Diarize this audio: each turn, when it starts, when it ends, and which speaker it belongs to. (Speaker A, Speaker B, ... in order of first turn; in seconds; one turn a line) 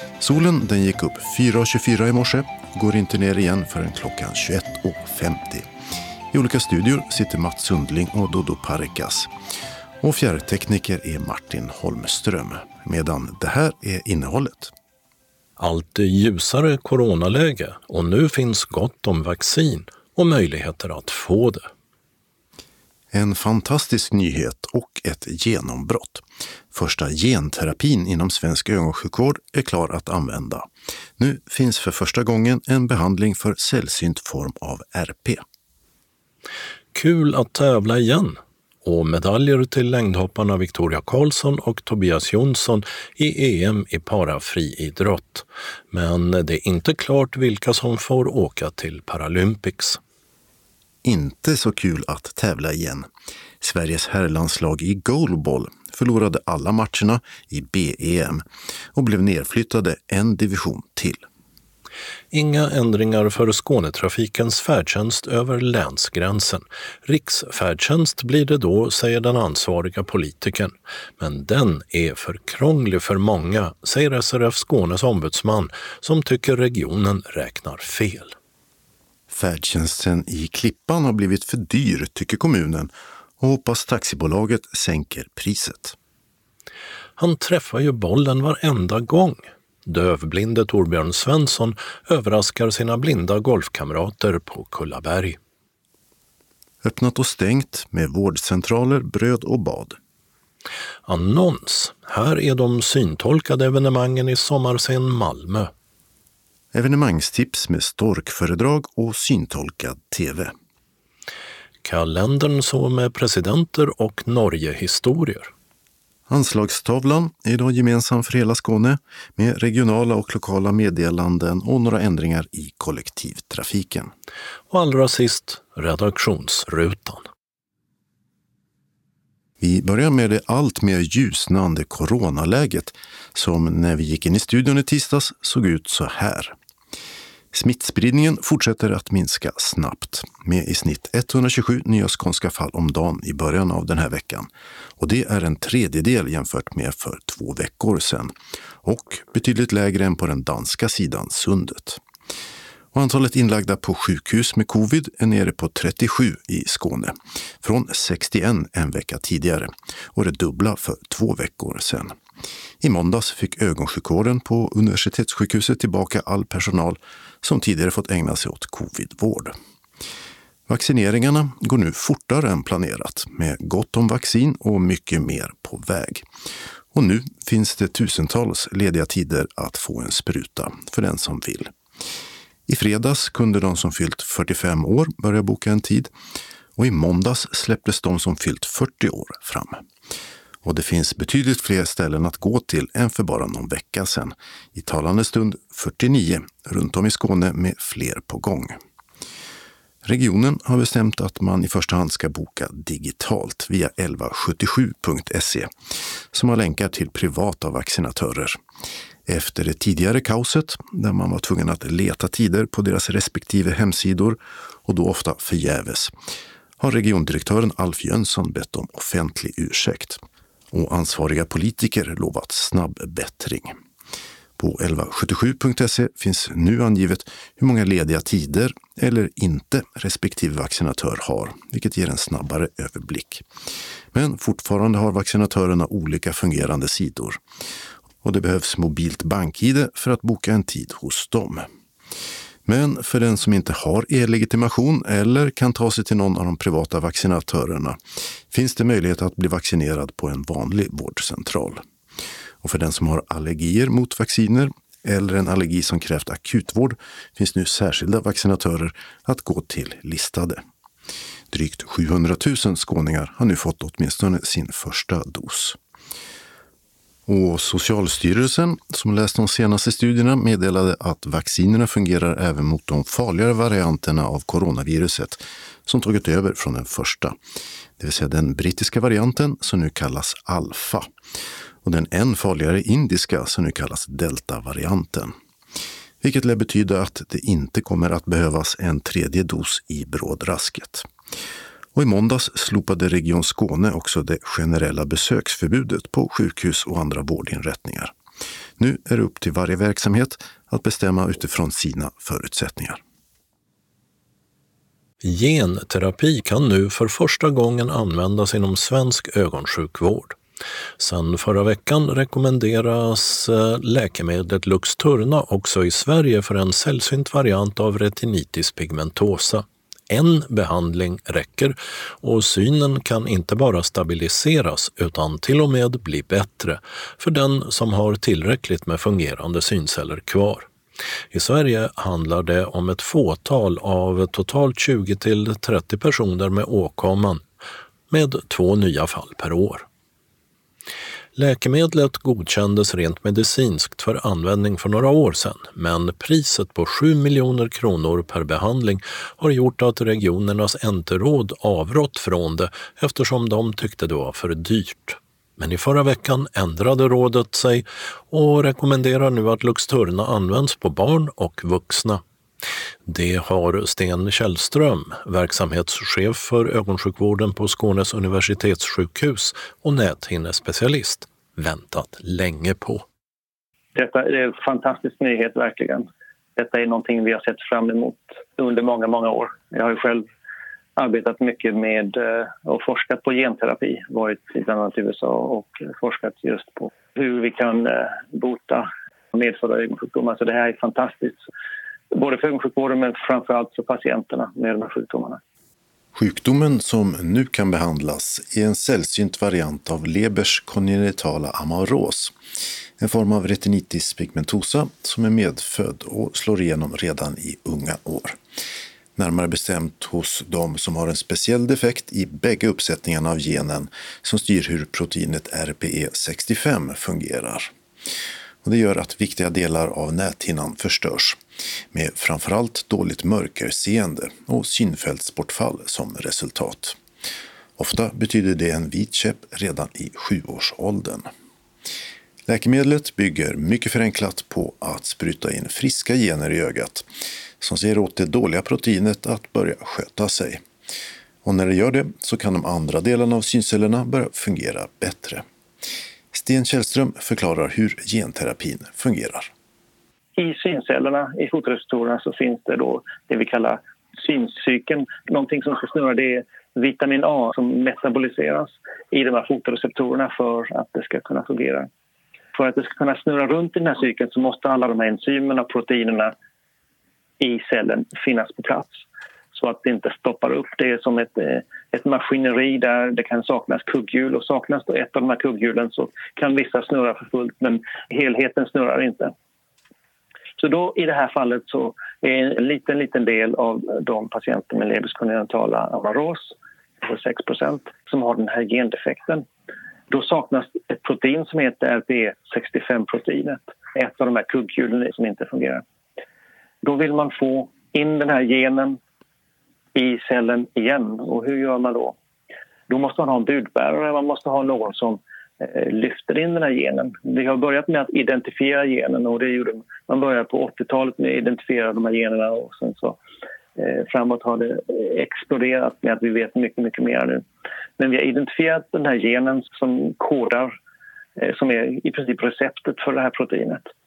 Speaker A: 0.2-5.7
Speaker A: 6.3-9.3
Speaker A: 10.0-14.7
Speaker B: 15.6-21.7
Speaker A: 23.1-35.4
Speaker B: 36.9-50.0
Speaker A: 51.0-53.1
Speaker A: 53.6-61.2
Speaker B: 62.3-78.3
Speaker A: 79.3-86.0
Speaker B: 87.2-95.4
Speaker A: 96.8-100.0
Speaker B: 101.1-105.7
Speaker A: 106.7-110.5
Speaker B: 111.8-115.5
Speaker A: 116.3-124.1
Speaker B: 124.7-127.2
Speaker A: 129.6-136.6
Speaker A: 137.5-152.0
Speaker A: 152.9-162.1
Speaker A: 162.8-169.5
Speaker A: 170.7-176.2
Speaker A: 176.9-181.7
Speaker A: 182.7-186.1
Speaker A: 186.8-189.8
Speaker A: 190.6-198.8
Speaker A: 200.0-205.7
Speaker A: 206.3-208.6
Speaker A: 209.2-216.1
Speaker A: 216.8-220.2
Speaker A: 220.7-223.7
Speaker A: 224.6-233.4
Speaker A: 234.1-237.4
Speaker A: 238.2-241.7
Speaker A: 242.6-248.0
Speaker A: 248.5-251.8
Speaker A: 252.6-260.6
Speaker A: 261.5-265.8
Speaker A: 267.2-277.4
Speaker A: 278.0-281.1
Speaker A: 281.8-285.3
Speaker A: 286.2-291.1
Speaker A: 291.9-298.1
Speaker A: 298.8-303.0
Speaker B: 305.2-310.4
Speaker B: 311.0-330.7
Speaker B: 331.3-337.4
Speaker B: 338.1-339.9
Speaker B: 341.4-362.2
Speaker B: 363.1-373.0
Speaker C: 373.9-380.2
Speaker C: 381.0-391.4
Speaker C: 392.1-395.4
Speaker A: 396.1-402.4
Speaker A: 403.0-408.4
Speaker A: 409.1-417.7
Speaker A: 418.6-421.4
Speaker A: 421.9-427.0
Speaker A: 427.8-431.3
Speaker A: 432.4-437.1
Speaker A: 437.6-440.6
Speaker A: 441.4-445.4
Speaker A: 446.3-449.5
Speaker C: 450.4-461.9
Speaker C: 462.5-466.3
Speaker C: 467.4-469.0
Speaker C: 469.5-479.3
Speaker C: 480.6-489.4
Speaker C: 490.1-495.8
Speaker C: 496.8-499.0
Speaker C: 499.9-502.1
Speaker C: 502.9-513.2
Speaker C: 513.8-517.4
Speaker C: 518.0-520.7
Speaker C: 521.4-523.9